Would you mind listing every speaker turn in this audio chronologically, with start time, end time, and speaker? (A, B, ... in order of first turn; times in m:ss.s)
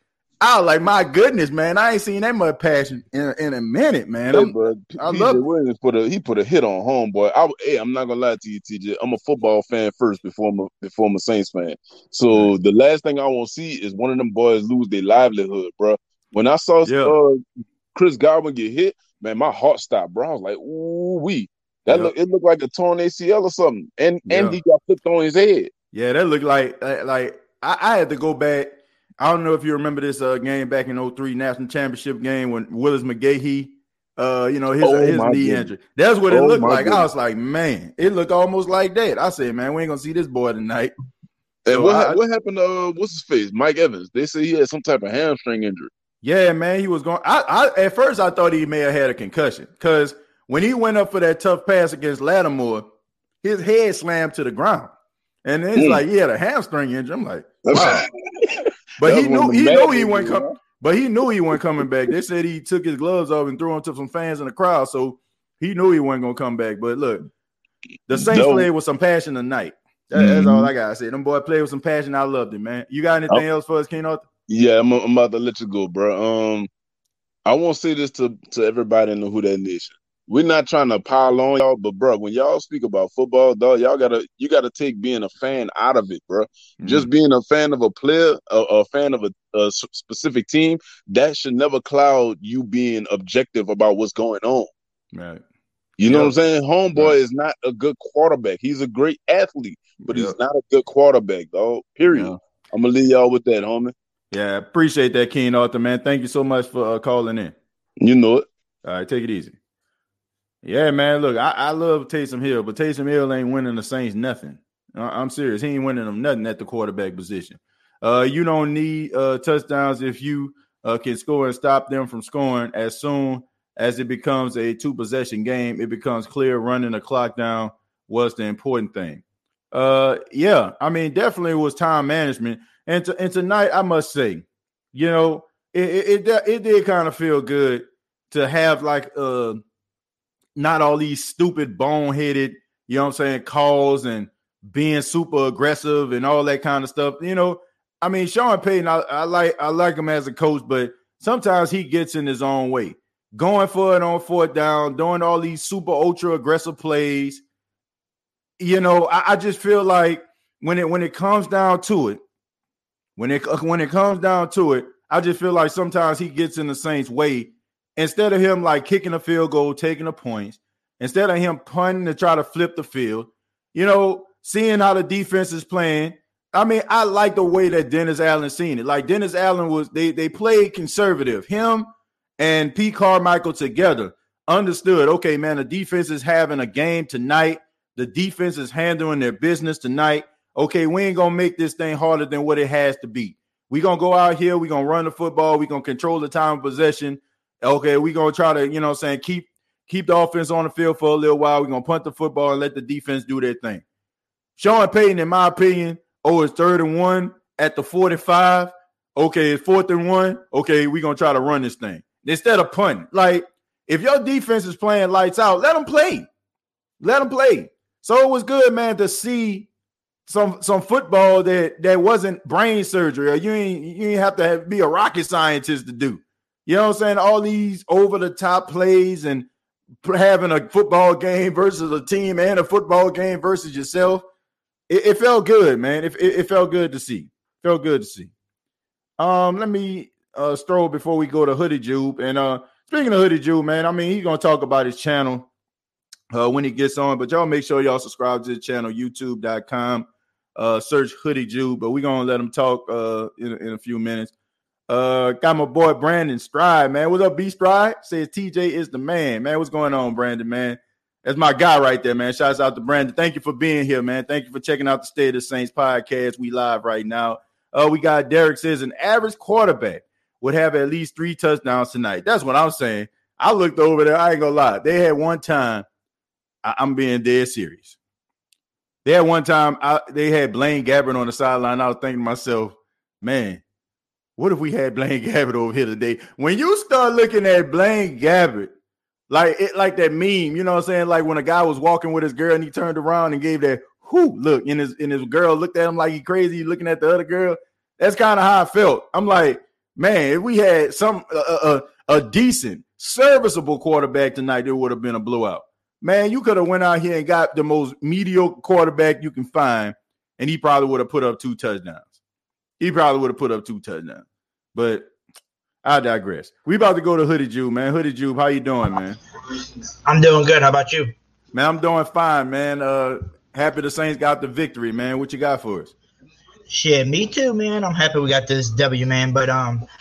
0:00.4-0:05.4 A
0:04.3-0:17.4 B
0:16.8-0:17.2 A
0:17.9-0:25.7 B
0:24.3-0:24.6 A
0:25.9-0:40.9 A
0:34.8-0:35.7 B
0:36.3-0:37.1 B
0:41.6-0:45.9 B
0:41.7-0:42.2 A
0:46.2-0:52.8 A
0:53.4-0:54.9 A
0:55.4-0:58.0 A
0:55.8-0:56.0 B
0:57.6-1:00.5 B
0:59.0-1:07.3 A
1:08.1-1:14.2 A
1:08.1-1:08.7 B
1:10.1-1:10.7 B
1:14.5-1:16.7 B
1:17.4-1:34.7 B
1:26.8-1:27.1 A
1:35.1-1:35.4 A
1:36.0-1:43.9 B
1:36.1-1:36.3 A
1:40.0-1:40.4 A
1:42.1-1:42.4 A
1:44.3-1:47.5 A
1:48.0-1:48.5 B
1:48.8-1:49.6 A
1:50.6-2:19.6 A
2:20.6-2:37.4 A
2:38.6-2:42.2 A
2:43.2-3:23.8 A
3:24.6-3:36.3 A
3:37.0-3:39.7 A
3:40.3-3:49.5 A
3:50.0-3:54.2 A
3:54.9-3:58.3 A
3:59.2-4:05.5 A
4:06.3-4:14.3 A
4:14.9-4:35.8 A
4:36.6-4:38.0 A
4:39.0-4:43.6 A
4:44.4-4:48.7 A
4:49.3-5:12.1 A
5:12.8-5:15.1 A
5:15.8-5:19.2 A
5:20.0-5:21.1 C
5:21.5-5:25.9 A
5:26.7-5:29.8 C